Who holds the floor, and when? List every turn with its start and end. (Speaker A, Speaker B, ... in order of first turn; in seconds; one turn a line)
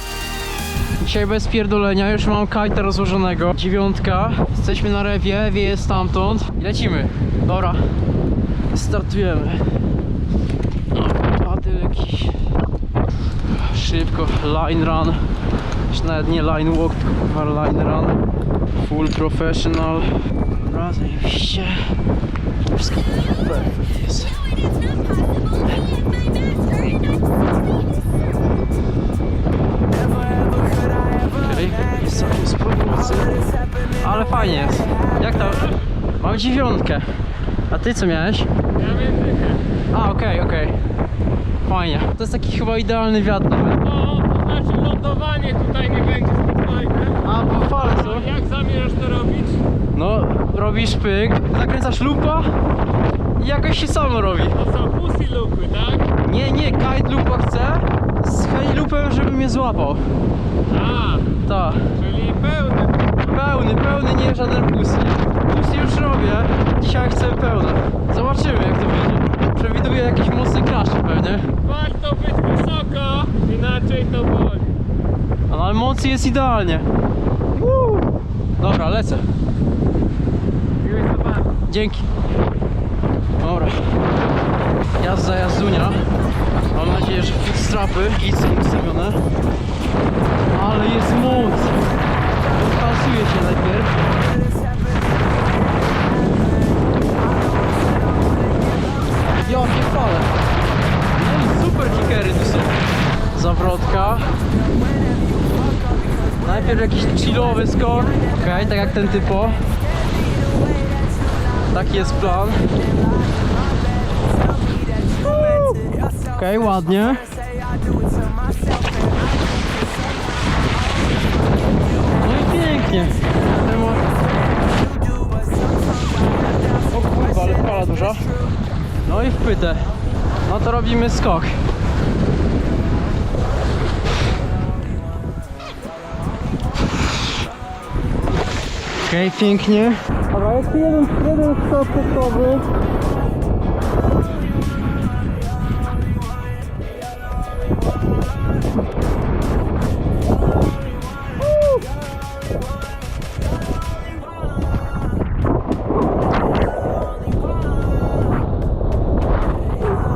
Speaker A: 1.0-7.8
Speaker A: 8.7-9.8
Speaker A: 10.9-12.4
Speaker A: 13.4-15.2
Speaker A: 15.9-18.2
Speaker A: 18.8-22.0
Speaker A: 22.7-24.4
Speaker A: 31.2-37.2
Speaker A: 37.7-38.5
Speaker B: 38.8-39.6
Speaker A: 39.9-40.8
Speaker A: 41.6-43.8
Speaker B: 43.8-49.6
Speaker A: 47.2-48.3
Speaker A: 49.9-52.5
Speaker A: 53.4-54.6
Speaker B: 54.6-56.1
Speaker A: 56.2-60.1
Speaker B: 60.7-61.4
Speaker A: 61.4-62.0
Speaker B: 61.9-63.1
Speaker A: 63.2-71.5
Speaker B: 71.6-74.8
Speaker A: 75.5-76.9
Speaker A: 78.6-79.3
Speaker B: 80.8-81.6
Speaker A: 81.7-82.1
Speaker A: 83.4-83.9
Speaker A: 85.0-86.0
Speaker A: 86.7-89.2
Speaker A: 90.5-91.8
Speaker A: 92.5-94.0
Speaker A: 99.4-100.3
Speaker A: 101.1-102.7
Speaker A: 103.3-104.4
Speaker A: 106.4-109.7
Speaker A: 111.7-112.7
Speaker A: 115.4-115.8
Speaker A: 116.3-117.3
Speaker A: 122.1-124.1
Speaker A: 126.8-128.3
Speaker A: 129.0-129.9
Speaker A: 130.4-131.6
Speaker A: 139.0-142.7